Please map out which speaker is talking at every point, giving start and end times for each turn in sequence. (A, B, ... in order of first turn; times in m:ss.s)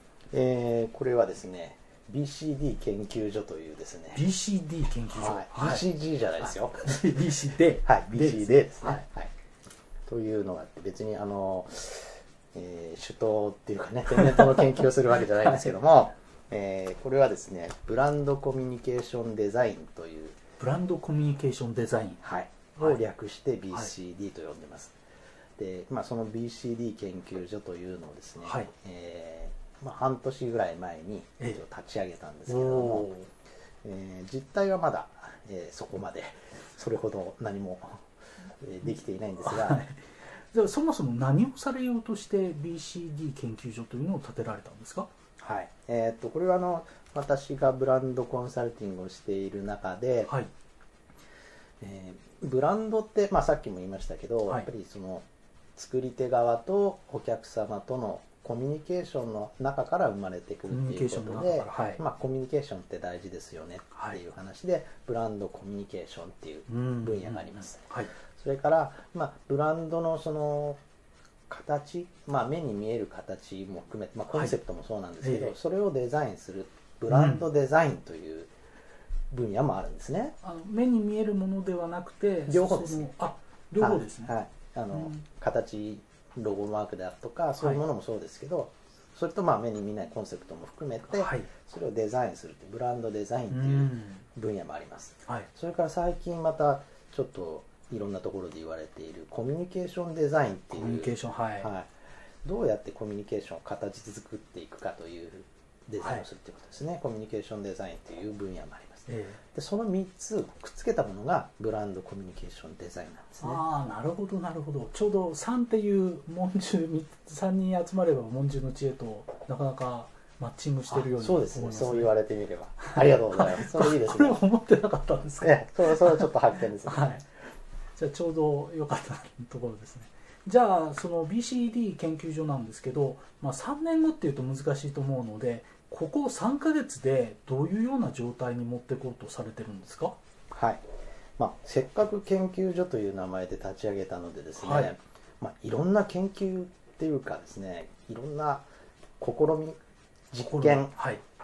0:00.3-0:04.2 A
0:04.2-0:05.8 B
0:05.1-0:07.2 A
0:06.4-0:09.0 B
0:07.8-0:09.3 A
0:10.1-0:20.4 A
0:15.4-0:15.7 B
0:20.6-0:22.2 B
0:22.2-0:24.9 A
0:25.6-0:33.1 A
0:28.4-0:28.7 B
0:32.5-0:33.3 B
0:33.8-0:38.0 A
0:38.6-0:39.8 A
0:39.4-0:45.1 B
0:45.4-0:50.3 A
0:51.8-1:10.8 A
1:00.7-1:02.0 B
1:03.9-1:04.2 B
1:06.7-1:08.1 B
1:11.5-1:18.5 A
1:15.2-1:15.5 B
1:17.1-1:17.4 B
1:19.3-1:20.4 A
1:20.4-1:24.3 B
1:22.5-1:23.1 A
1:23.8-1:41.9 A
1:24.9-1:25.2 B
1:31.1-1:31.5 B
1:33.5-1:34.2 B
1:40.7-1:41.7 B
1:42.4-1:53.6 A
1:49.1-1:49.4 B
1:53.4-2:02.1 B
2:00.9-2:04.4 A
2:02.8-2:06.3 B
2:05.4-2:07.1 A
2:06.9-2:07.2 B
2:08.0-2:20.2 B
2:20.5-2:20.8 A
2:21.4-2:28.7 A
2:24.6-2:24.9 B
2:29.2-2:29.8 A
2:30.3-2:30.9 A
2:30.4-2:31.2 B